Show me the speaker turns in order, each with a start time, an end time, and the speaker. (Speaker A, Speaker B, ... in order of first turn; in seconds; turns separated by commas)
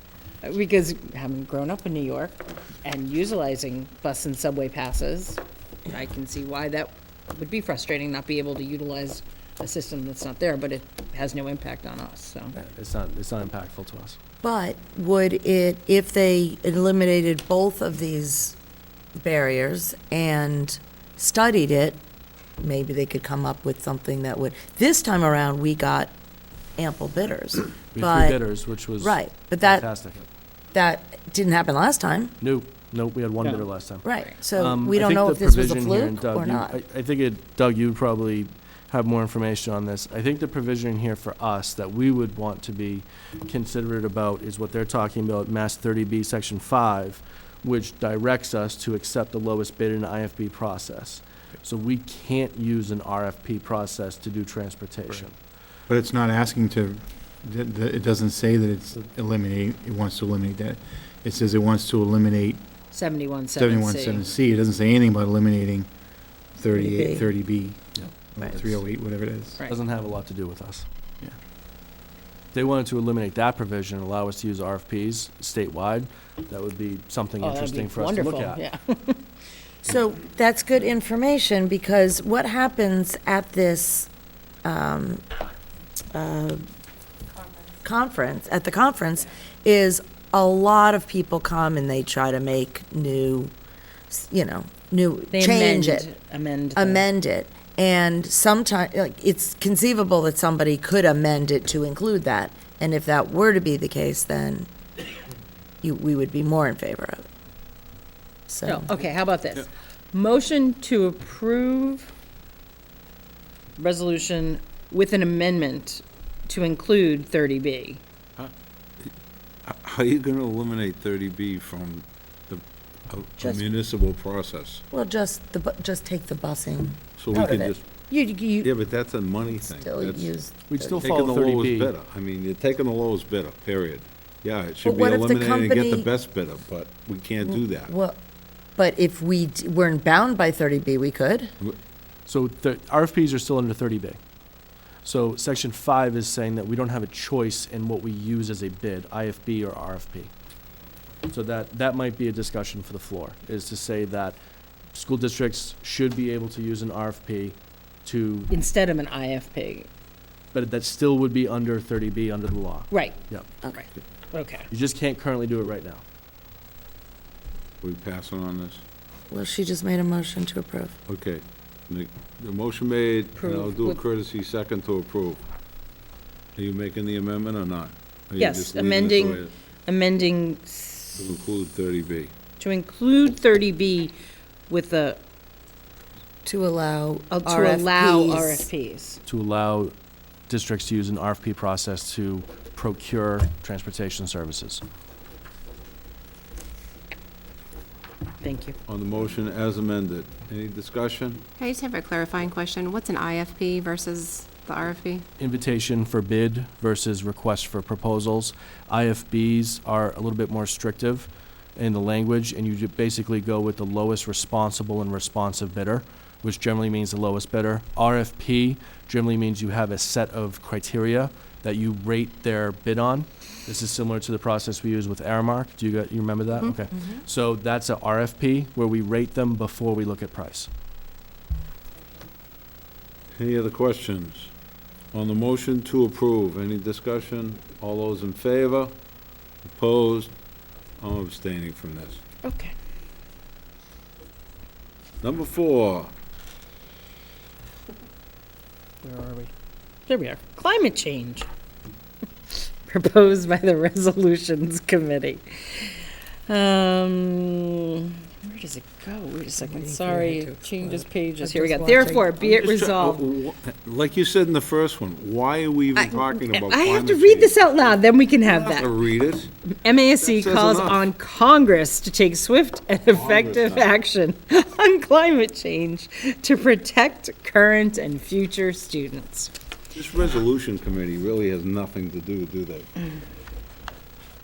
Speaker A: 0.4-12.6, Speaker B: 12.6-14.2, Speaker C: 14.4-18.6, Speaker C: 19.2-22.0, Speaker C: 22.6-26.1, Speaker C: 26.8-28.4, Speaker B: 27.9-30.2, Speaker C: 29.0-29.9, Speaker C: 30.7-32.3, Speaker B: 32.4-34.0, Speaker C: 34.0-36.8, Speaker B: 34.6-55.3, Speaker D: 55.9-62.6, Speaker A: 62.9-64.3, Speaker D: 63.5-65.9, Speaker D: 66.6-67.8, Speaker C: 66.7-67.3, Speaker B: 68.0-68.8, Speaker D: 68.3-69.6, Speaker B: 69.7-70.8, Speaker B: 72.5-78.6, Speaker A: 77.4-79.2, Speaker C: 79.8-84.1, Speaker C: 84.6-85.2, Speaker C: 86.1-86.6, Speaker C: 87.8-93.5, Speaker C: 94.1-96.1, Speaker A: 95.3-97.0, Speaker C: 96.8-104.7, Speaker C: 105.8-107.2, Speaker C: 108.5-108.9, Speaker A: 108.6-112.1, Speaker A: 113.8-118.0, Speaker E: 119.7-124.8, Speaker C: 124.9-128.7, Speaker E: 127.2-127.9, Speaker E: 128.6-130.3, Speaker C: 129.4-131.1, Speaker B: 130.7-131.9, Speaker E: 131.0-137.9, Speaker C: 134.8-136.1, Speaker C: 137.4-138.2, Speaker C: 138.8-141.5, Speaker B: 142.2-144.2, Speaker B: 145.0-150.3, Speaker B: 151.3-154.4, Speaker B: 154.9-158.5, Speaker A: 158.5-159.9, Speaker B: 160.5-163.5, Speaker A: 162.9-163.2, Speaker A: 163.7-164.7, Speaker B: 164.7-166.0, Speaker E: 167.8-168.8, Speaker C: 169.3-170.9, Speaker E: 171.1-175.4, Speaker A: 173.3-174.0, Speaker E: 176.6-179.5, Speaker A: 178.4-181.2, Speaker E: 181.2-182.3, Speaker A: 182.6-184.1, Speaker A: 184.7-185.2, Speaker C: 186.4-188.7, Speaker A: 187.3-189.2, Speaker B: 189.2-189.9, Speaker B: 190.5-194.8, Speaker A: 198.4-198.8, Speaker E: 198.9-201.4, Speaker F: 201.6-205.2, Speaker B: 205.4-230.7, Speaker E: 233.4-234.5, Speaker E: 235.1-238.9, Speaker E: 239.6-240.3, Speaker E: 241.0-242.2, Speaker A: 242.4-242.7, Speaker E: 245.2-246.1, Speaker A: 249.0-249.5, Speaker A: 250.1-251.5, Speaker A: 252.8-263.3, Speaker C: 259.6-262.4, Speaker E: 262.4-269.5, Speaker A: 265.9-268.9, Speaker A: 269.6-279.5, Speaker E: 270.2-271.0, Speaker E: 273.1-273.9, Speaker E: 279.9-282.9